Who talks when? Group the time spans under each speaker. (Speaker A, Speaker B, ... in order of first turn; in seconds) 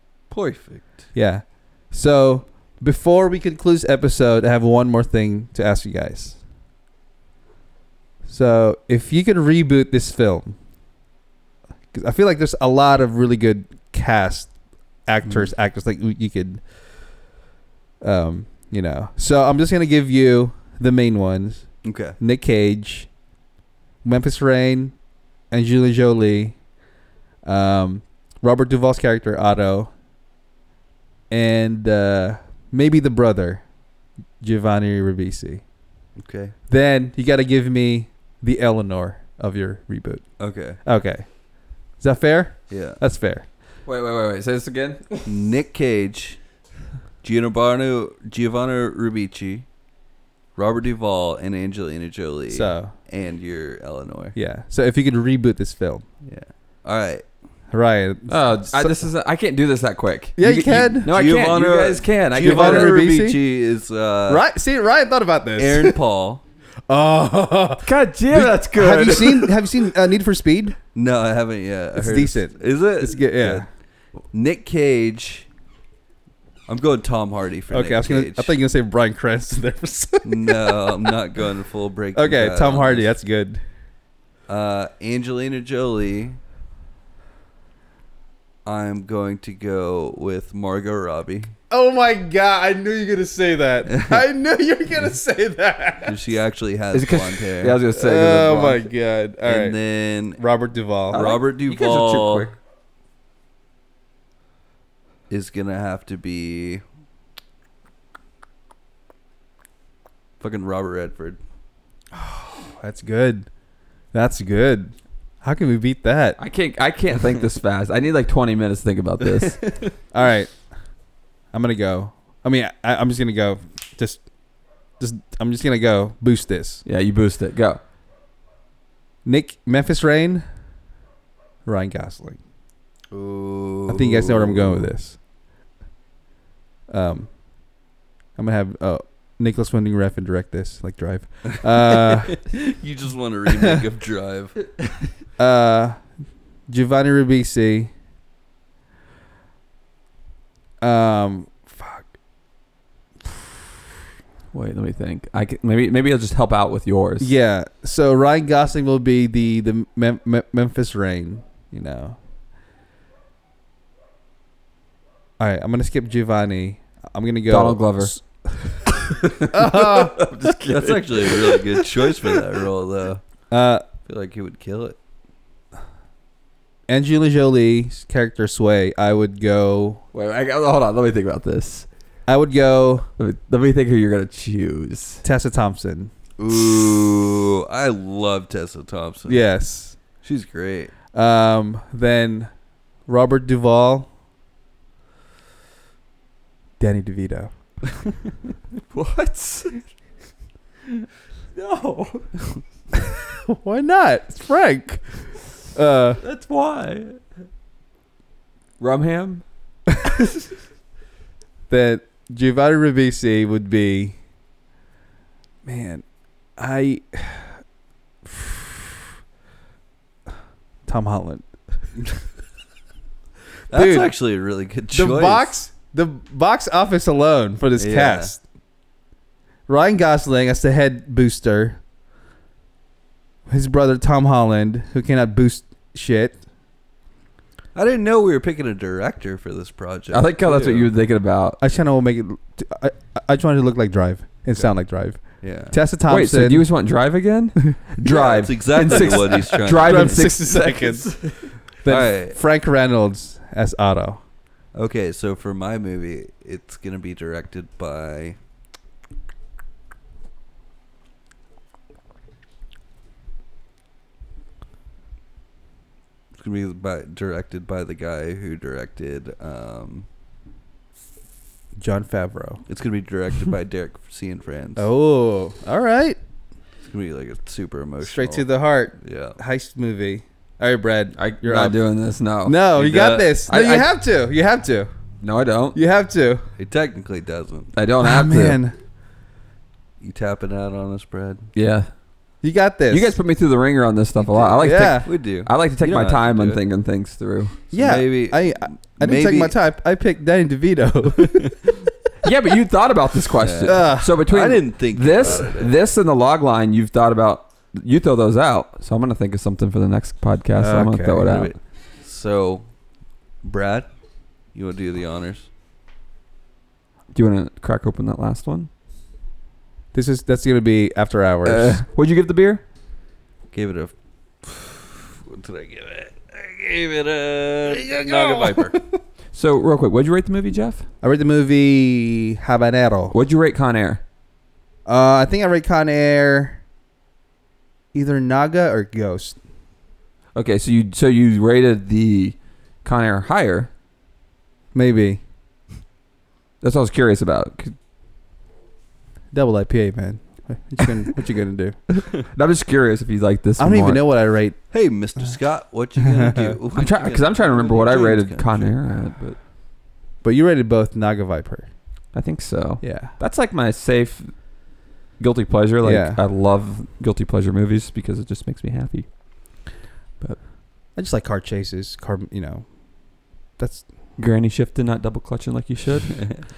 Speaker A: 0.3-1.1, 21.8-22.2, 36.2-36.5, 40.4-40.8, 42.7-43.0, 45.2-46.4, 47.2-49.6, 50.5-54.3, 56.2-57.2, 61.0-64.4, 65.6-66.4, 70.9-73.6, 74.3-75.5, 76.7-78.5, 80.2-83.1, 84.5-86.4, 88.6-91.5, 93.9-94.2, 96.0-97.8, 99.4-100.4, 101.1-102.5, 105.3-106.8, 110.4-111.4, 119.2-119.9, 133.1-134.9, 142.0-144.6, 170.6-173.2, 174.0-175.0, 186.4-189.4, 190.2-190.9, 223.7-225.5, 227.8-228.3, 237.7-240.9, 245.4-245.7, 248.0-250.3, 251.8-252.4, 254.7-258.4, 266.4-270.1, 272.7-274.9, 276.8-278.5, 279.0-279.4, 282.7-283.4, 286.6-287.7, 290.0-291.5, 294.1-296.6, 297.7-299.6, 303.4-305.7, 311.2-312.6, 313.4-313.9, 314.5-315.5, 323.5-328.7, 354.7-358.8, 376.1-376.4
Speaker B: 1.1-6.4, 8.3-10.6, 11.9-14.5, 15.1-16.6, 18.0-23.1, 24.0-24.9, 25.5-26.6, 27.4-29.9, 31.3-33.7, 34.4-35.6, 36.7-40.3, 40.8-43.5, 52.5-52.9, 54.3-56.0, 57.7-59.0, 60.4-61.1, 62.3-63.4, 64.3-66.0, 66.9-70.8, 71.9-73.7, 77.7-81.1, 82.1-83.6, 91.7-96.2, 97.9-99.8, 100.3-101.3, 112.1-113.5, 114.1-116.4, 120.1-120.5, 121.5-124.2, 125.0-126.8, 129.2-130.4, 131.6-132.4, 133.9-135.2, 136.9-137.3, 138.3-142.4, 145.4-146.0, 146.7-147.9, 150.8-152.1, 157.2-162.2, 165.4-168.8, 169.4-170.3, 173.5-173.8, 176.9-180.0, 182.3-183.1, 185.2-186.1, 189.2-189.9, 191.1-192.5, 193.1-194.1, 196.8-197.5, 203.5-206.2, 211.7-214.2, 215.6-216.0, 216.6-217.6, 218.2-218.9, 220.8-221.5, 223.7-224.1, 224.9-228.4, 229.7-231.8, 233.5-236.4, 241.6-246.7, 248.8-254.2, 271.8-272.6, 274.8-276.2, 278.0-281.8, 282.4-284.9, 285.7-286.4, 288.0-288.8, 292.4-293.1, 294.6-295.1, 297.7-301.6, 303.6-304.2, 310.6-311.3, 319.9-321.8, 328.0-329.0, 331.0-333.1, 334.9-336.6, 337.9-339.4, 344.7-345.2, 349.3-351.8, 353.6-354.6, 356.0-356.6, 360.2-361.7, 362.8-363.1, 365.8-366.2, 370.9-372.7, 373.6-373.9
Speaker C: 43.9-45.3, 58.3-63.0, 67.8-69.6, 96.9-98.8, 101.1-102.5, 116.4-119.6, 126.8-127.8, 154.5-157.3, 167.5-168.2, 168.9-172.4, 180.1-181.9, 183.2-185.2, 198.9-199.9, 201.5-202.3, 206.2-207.2, 208.8-209.4, 240.1-241.6, 246.1-251.5, 281.2-282.6, 283.5-283.9, 285.2-285.8, 287.7-288.6, 291.5-291.9, 292.9-297.6, 302.2-311.5, 317.1-318.7, 321.4-322.6, 329.3-330.9, 333.1-334.0, 340.3-343.7, 346.6-347.8, 351.9-354.0, 356.7-359.4, 362.1-364.3, 365.2-369.1, 374.2-376.4